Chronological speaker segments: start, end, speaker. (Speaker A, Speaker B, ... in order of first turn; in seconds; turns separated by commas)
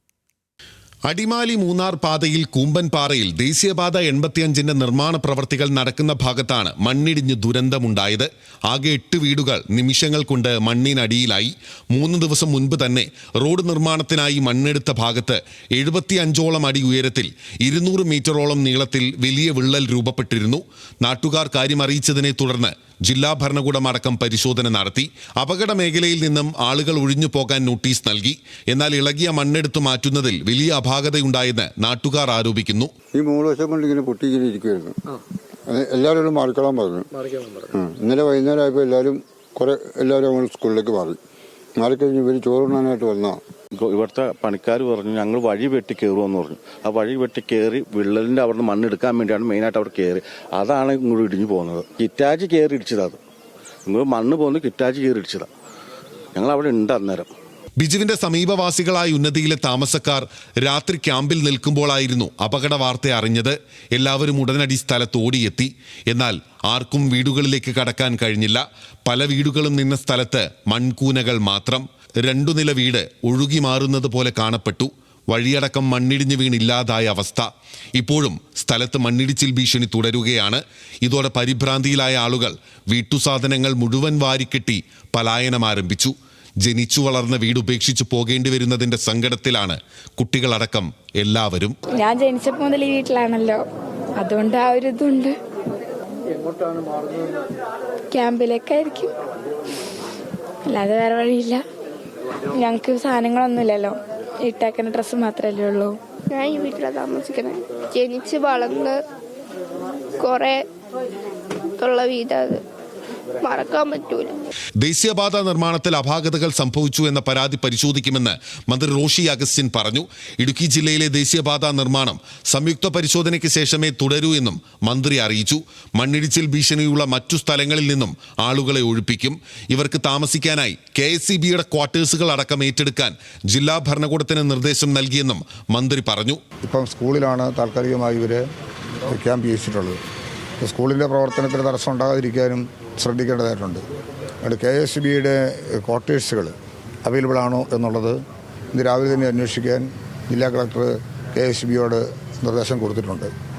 Speaker A: 1.1-32.9, Speaker B: 33.1-35.0, Speaker B: 35.7-41.2, Speaker B: 41.8-43.4, Speaker C: 43.7-53.2, Speaker C: 53.9-55.5, Speaker C: 56.4-57.3, Speaker A: 57.8-91.8, Speaker D: 92.0-93.6, Speaker D: 94.2-95.3, Speaker D: 98.1-99.1, Speaker D: 100.7-101.6, Speaker D: 102.6-106.0, Speaker E: 106.3-109.0, Speaker E: 110.2-110.6, Speaker E: 111.8-112.6, Speaker E: 113.4-114.3, Speaker A: 114.8-136.4, Speaker F: 136.6-138.4, Speaker F: 139.1-140.0, Speaker F: 140.6-143.8, Speaker F: 144.4-146.5, Speaker F: 147.1-148.2, Speaker F: 148.7-153.3